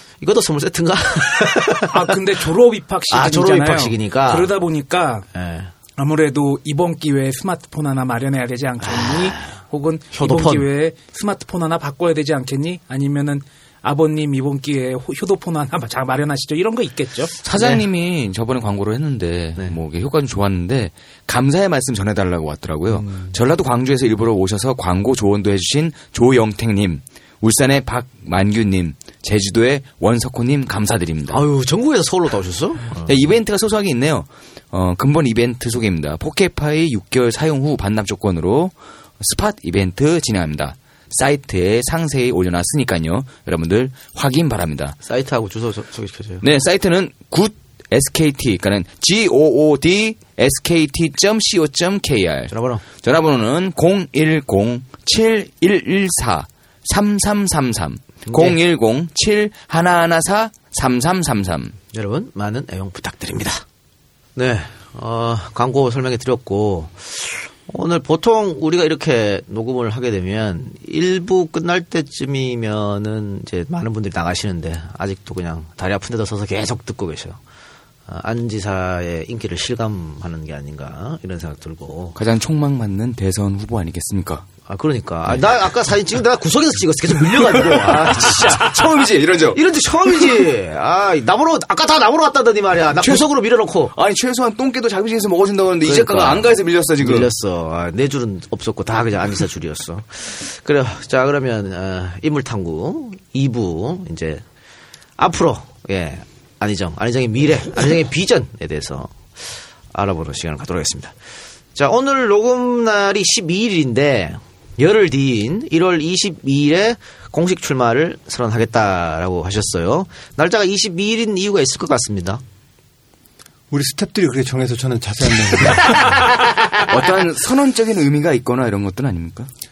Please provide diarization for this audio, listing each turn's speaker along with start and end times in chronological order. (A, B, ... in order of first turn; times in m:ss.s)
0:00.2-0:01.9 A
0:01.9-0:05.2 B
0:03.1-0:04.5 A
0:05.3-0:05.7 A
0:06.0-0:17.3 B
0:08.8-0:09.6 A
0:10.1-0:10.7 A
0:17.4-0:31.4 C
0:17.5-0:17.8 A
0:22.9-0:23.3 A
0:31.3-0:33.0 A
0:33.0-0:45.0 C
0:45.0-0:46.4 A
0:46.4-1:01.8 C
0:52.5-0:52.8 A
0:58.2-0:58.6 A
1:01.9-1:03.6 A
1:04.4-1:17.4 A
1:18.1-1:22.2 A
1:22.2-1:24.5 C
1:24.7-1:28.7 A
1:27.4-1:30.4 C
1:29.5-1:33.9 A
1:33.0-1:33.2 C
1:33.9-1:37.3 C
1:35.8-1:44.4 A
1:45.2-1:51.2 A
1:51.7-2:02.4 A
2:03.7-2:06.1 D
2:06.8-2:09.5 C